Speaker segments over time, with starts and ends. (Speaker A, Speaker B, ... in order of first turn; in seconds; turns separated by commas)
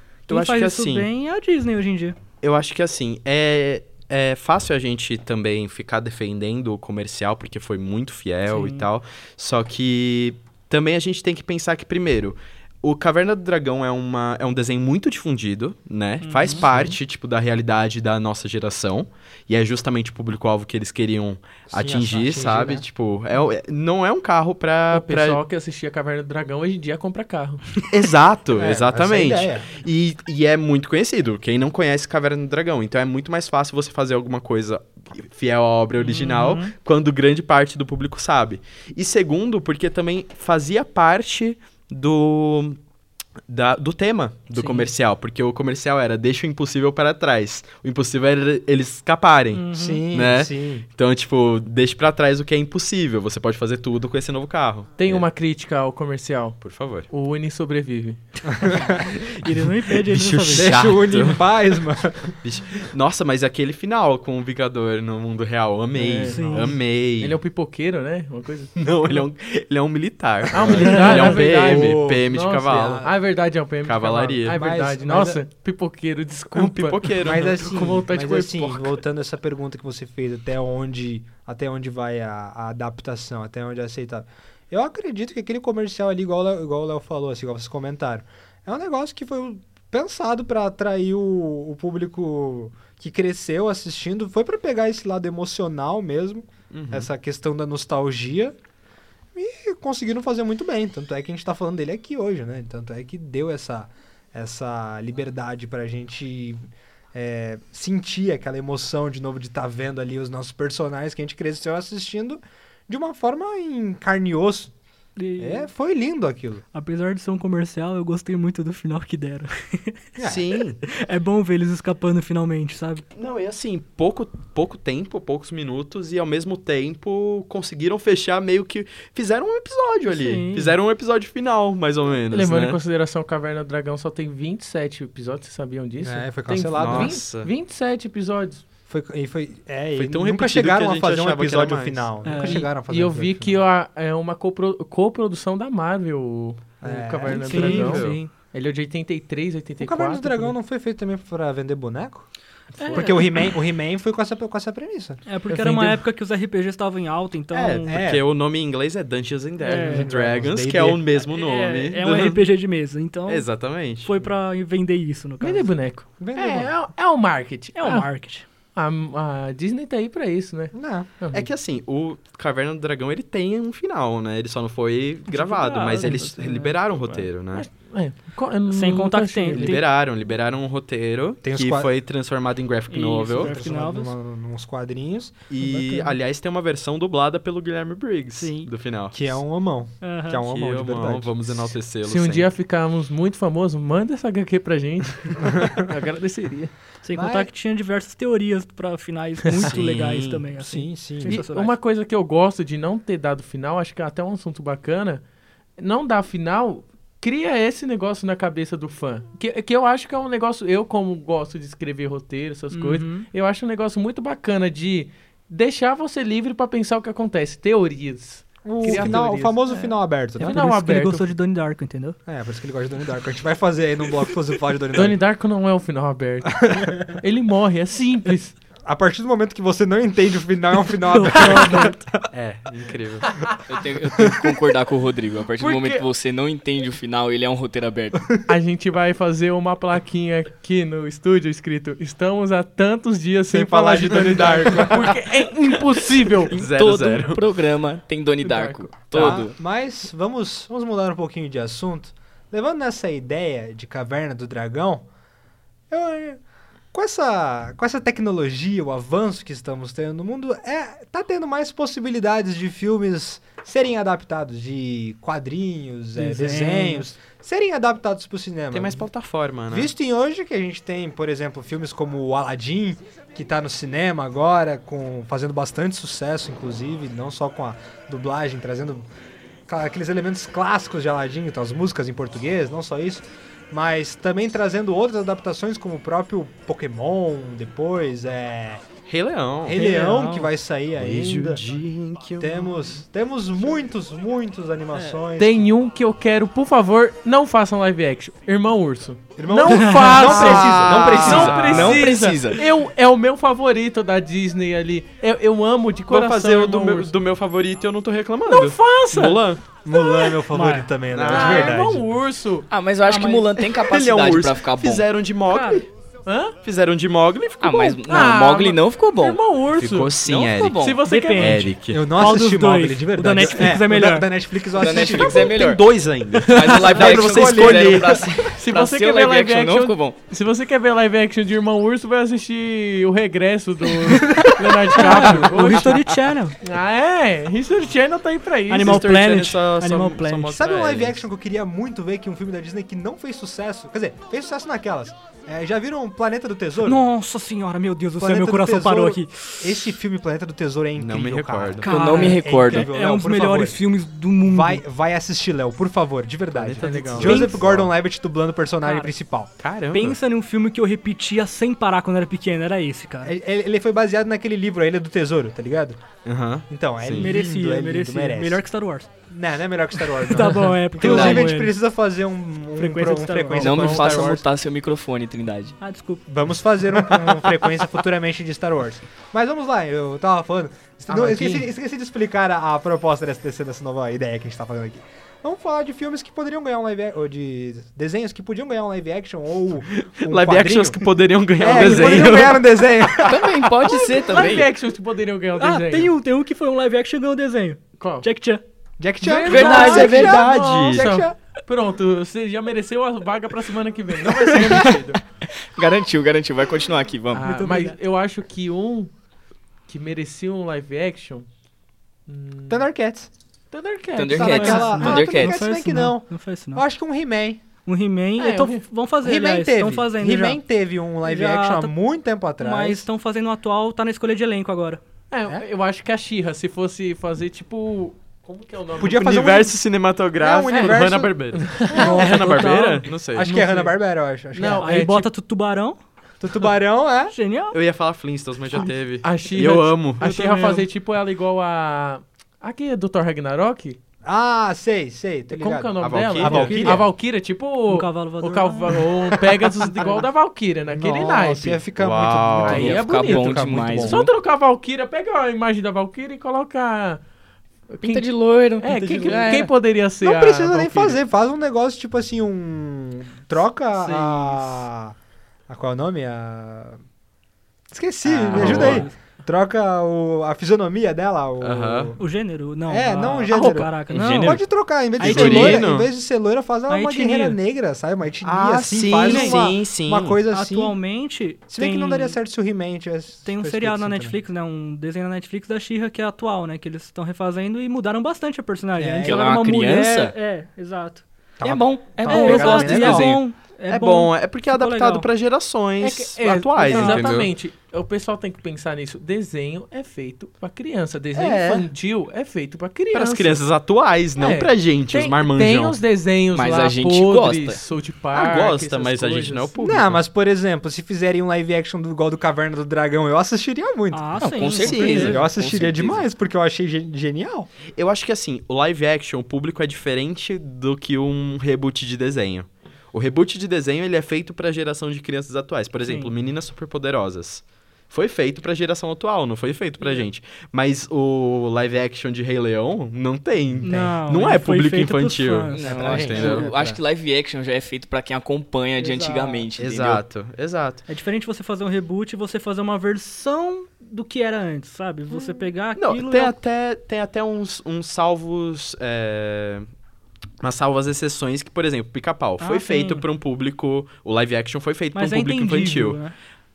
Speaker A: 0.3-2.1, Speaker B: 0.3-1.1, Speaker B: 2.4-25.4, Speaker A: 8.5-8.9, Speaker A: 16.2-16.6, Speaker C: 16.5-16.9, Speaker C: 21.7-22.9, Speaker D: 24.9-27.7, Speaker B: 27.9-42.8, Speaker C: 28.5-29.7, Speaker A: 36.0-36.7, Speaker B: 43.5-55.2, Speaker A: 44.5-44.9, Speaker A: 49.5-50.0, Speaker C: 49.7-50.9, Speaker D: 55.0-58.2, Speaker B: 56.6-57.1, Speaker C: 58.5-59.2, Speaker A: 58.6-60.7, Speaker B: 60.0-61.6, Speaker C: 60.5-62.3, Speaker B: 62.4-67.4, Speaker D: 65.9-69.2, Speaker A: 66.2-66.8, Speaker B: 68.8-73.1, Speaker D: 70.5-79.0, Speaker C: 70.6-73.1, Speaker B: 73.8-74.5, Speaker C: 74.5-75.4, Speaker B: 76.5-77.7, Speaker C: 77.2-98.6, Speaker B: 96.7-97.1, Speaker C: 99.3-106.6, Speaker C: 107.1-114.7, Speaker A: 115.2-115.7, Speaker C: 115.4-116.6, Speaker A: 116.7-120.1, Speaker C: 120.2-120.4, Speaker B: 120.2-120.8, Speaker A: 120.8-123.0, Speaker B: 123.1-132.8, Speaker A: 130.1-130.7, Speaker D: 132.3-138.6, Speaker C: 136.0-137.2, Speaker B: 136.8-137.5, Speaker C: 138.9-143.6, Speaker B: 139.9-142.1, Speaker A: 142.2-142.7, Speaker D: 142.5-150.5, Speaker C: 146.8-148.0, Speaker A: 147.3-148.3, Speaker B: 147.7-148.2, Speaker C: 149.8-152.3, Speaker A: 152.8-153.5, Speaker C: 152.8-155.2, Speaker A: 155.2-158.0, Speaker D: 155.5-156.0, Speaker B: 157.5-162.4, Speaker C: 157.9-158.2, Speaker A: 159.6-160.1, Speaker C: 159.7-161.0, Speaker A: 161.3-165.7, Speaker B: 163.3-164.1, Speaker D: 165.4-168.1, Speaker C: 166.2-166.7, Speaker A: 167.8-168.4, Speaker D: 168.7-171.5, Speaker C: 170.7-171.1, Speaker B: 171.3-177.7, Speaker A: 175.3-177.3, Speaker D: 177.5-179.8, Speaker A: 178.7-179.8, Speaker B: 179.5-183.5, Speaker C: 181.4-181.9, Speaker A: 182.9-184.1, Speaker C: 183.3-186.0, Speaker B: 185.5-189.4, Speaker A: 185.7-186.1, Speaker A: 188.4-188.7, Speaker C: 189.1-191.7, Speaker A: 190.0-190.4, Speaker B: 190.4-192.5, Speaker D: 192.0-196.7, Speaker C: 195.4-195.8, Speaker A: 197.0-201.8, Speaker C: 197.1-197.5, Speaker B: 199.6-200.4, Speaker C: 200.6-201.4, Speaker D: 201.2-205.2, Speaker D: 205.8-219.6, Speaker A: 212.7-213.3, Speaker C: 218.6-220.7, Speaker A: 219.7-222.2, Speaker D: 220.4-221.3, Speaker C: 222.2-225.2, Speaker D: 224.9-228.6, Speaker C: 226.6-227.1, Speaker C: 228.8-232.3, Speaker A: 231.1-232.0, Speaker B: 232.3-233.4, Speaker E: 233.7-238.4, Speaker C: 234.2-234.5, Speaker D: 235.6-236.0, Speaker D: 238.4-246.5, Speaker C: 243.5-245.2, Speaker B: 244.1-244.9, Speaker B: 246.5-247.4, Speaker E: 246.5-249.6, Speaker D: 248.4-249.4, Speaker C: 249.1-255.1, Speaker C: 255.9-256.4, Speaker C: 256.9-269.1, Speaker A: 266.1-267.1, Speaker B: 268.7-269.9, Speaker C: 269.7-279.1, Speaker C: 279.7-288.8, Speaker B: 289.1-289.8, Speaker C: 289.6-291.6, Speaker A: 289.7-290.5, Speaker B: 290.9-292.8, Speaker C: 292.4-295.7, Speaker D: 295.4-307.1, Speaker C: 299.4-302.0, Speaker A: 299.7-300.3, Speaker B: 300.2-302.6, Speaker E: 301.6-302.6, Speaker B: 306.1-309.6, Speaker D: 308.5-309.4, Speaker C: 309.8-312.1, Speaker A: 309.9-310.9, Speaker B: 311.1-311.8, Speaker D: 311.2-312.7, Speaker E: 312.7-315.1, Speaker A: 313.1-313.5, Speaker B: 313.7-315.9, Speaker A: 315.5-315.8, Speaker D: 316.2-316.6, Speaker B: 316.6-318.0, Speaker E: 317.6-319.4, Speaker D: 318.1-320.1, Speaker B: 319.8-322.0, Speaker E: 320.2-321.1, Speaker D: 320.8-321.7, Speaker A: 321.1-324.3, Speaker C: 321.9-325.6, Speaker E: 324.7-325.8, Speaker B: 324.9-328.5, Speaker E: 326.4-330.2, Speaker D: 326.6-327.1, Speaker C: 326.9-328.2, Speaker D: 328.5-336.0, Speaker A: 334.2-336.6, Speaker B: 335.4-335.9, Speaker D: 336.6-339.0, Speaker A: 338.7-340.5, Speaker B: 338.8-341.2, Speaker C: 340.5-347.0, Speaker A: 346.8-349.9, Speaker C: 348.2-353.8, Speaker B: 350.9-351.9, Speaker A: 351.8-354.8, Speaker E: 351.9-352.9, Speaker C: 354.4-359.5, Speaker B: 356.5-357.9, Speaker D: 356.8-357.4, Speaker A: 357.2-357.6, Speaker A: 358.8-359.1, Speaker B: 359.6-360.2, Speaker A: 359.9-363.3, Speaker C: 363.2-366.0, Speaker B: 366.2-367.4, Speaker C: 366.7-368.6, Speaker A: 367.2-369.1, Speaker C: 369.3-374.4, Speaker A: 370.1-371.7, Speaker E: 371.0-371.4, Speaker A: 372.8-373.8, Speaker E: 373.6-375.8, Speaker D: 373.6-374.1, Speaker A: 375.8-376.2, Speaker C: 376.3-393.9, Speaker D: 381.1-381.6, Speaker B: 389.9-393.5, Speaker A: 391.7-392.3, Speaker E: 393.2-394.7, Speaker D: 393.9-396.1, Speaker A: 395.6-398.6, Speaker D: 398.0-398.2, Speaker C: 399.0-401.3, Speaker D: 399.2-405.2, Speaker A: 399.4-400.3, Speaker E: 399.5-400.4, Speaker B: 399.5-401.1, Speaker E: 405.6-407.5, Speaker A: 407.3-408.0, Speaker D: 407.3-409.1, Speaker D: 409.9-411.4, Speaker D: 412.3-412.9, Speaker C: 412.7-413.3, Speaker D: 413.7-414.9, Speaker E: 414.1-415.6, Speaker C: 414.3-417.6, Speaker A: 414.4-416.8, Speaker A: 417.9-420.6, Speaker D: 418.4-418.8, Speaker C: 419.2-423.1, Speaker A: 421.2-421.9, Speaker A: 422.6-425.0, Speaker D: 425.3-429.3, Speaker C: 429.0-429.7, Speaker B: 429.0-433.5, Speaker C: 430.4-432.4, Speaker D: 430.7-433.9, Speaker A: 431.9-433.0, Speaker C: 433.3-435.0, Speaker D: 434.5-435.3, Speaker A: 434.8-436.0, Speaker C: 436.4-437.3, Speaker A: 437.3-437.8, Speaker B: 437.7-440.4, Speaker D: 438.7-444.0, Speaker A: 440.2-440.9, Speaker C: 444.2-447.1, Speaker D: 445.5-451.8, Speaker B: 446.0-447.0, Speaker A: 447.9-448.9, Speaker C: 450.9-454.2, Speaker B: 452.0-453.0, Speaker D: 452.6-457.2, Speaker E: 452.9-454.3, Speaker D: 457.9-458.2, Speaker E: 458.0-459.7, Speaker D: 458.8-461.2, Speaker C: 460.2-465.1, Speaker A: 463.9-464.8, Speaker C: 465.7-467.0, Speaker C: 467.9-472.2, Speaker B: 468.2-469.1, Speaker A: 468.5-469.1, Speaker B: 471.6-472.1, Speaker A: 472.2-474.6, Speaker C: 472.9-481.0, Speaker B: 474.1-474.6, Speaker A: 475.2-475.9, Speaker B: 475.2-476.1, Speaker A: 476.9-477.6, Speaker B: 478.4-480.4, Speaker A: 479.2-479.6, Speaker A: 480.5-482.4, Speaker C: 481.7-484.4, Speaker A: 483.4-491.2, Speaker C: 489.0-489.4, Speaker E: 489.2-490.3, Speaker C: 491.6-493.4, Speaker E: 491.6-493.4, Speaker A: 492.2-495.3, Speaker B: 493.9-497.5, Speaker D: 496.0-503.6, Speaker A: 496.9-497.3, Speaker B: 501.3-501.9, Speaker B: 503.1-506.0, Speaker D: 504.4-509.7, Speaker E: 506.5-507.8, Speaker B: 508.3-510.2, Speaker C: 509.8-517.7, Speaker A: 514.1-515.4, Speaker E: 514.4-516.2, Speaker B: 514.8-515.5, Speaker B: 518.0-536.7, Speaker A: 526.0-526.3, Speaker A: 533.8-536.5, Speaker C: 533.8-534.2, Speaker E: 535.7-540.2, Speaker C: 535.8-537.0, Speaker A: 539.0-539.6, Speaker B: 539.8-541.0, Speaker A: 541.1-546.5, Speaker B: 546.0-549.9, Speaker B: 550.6-556.2, Speaker A: 552.6-553.2, Speaker A: 555.1-556.4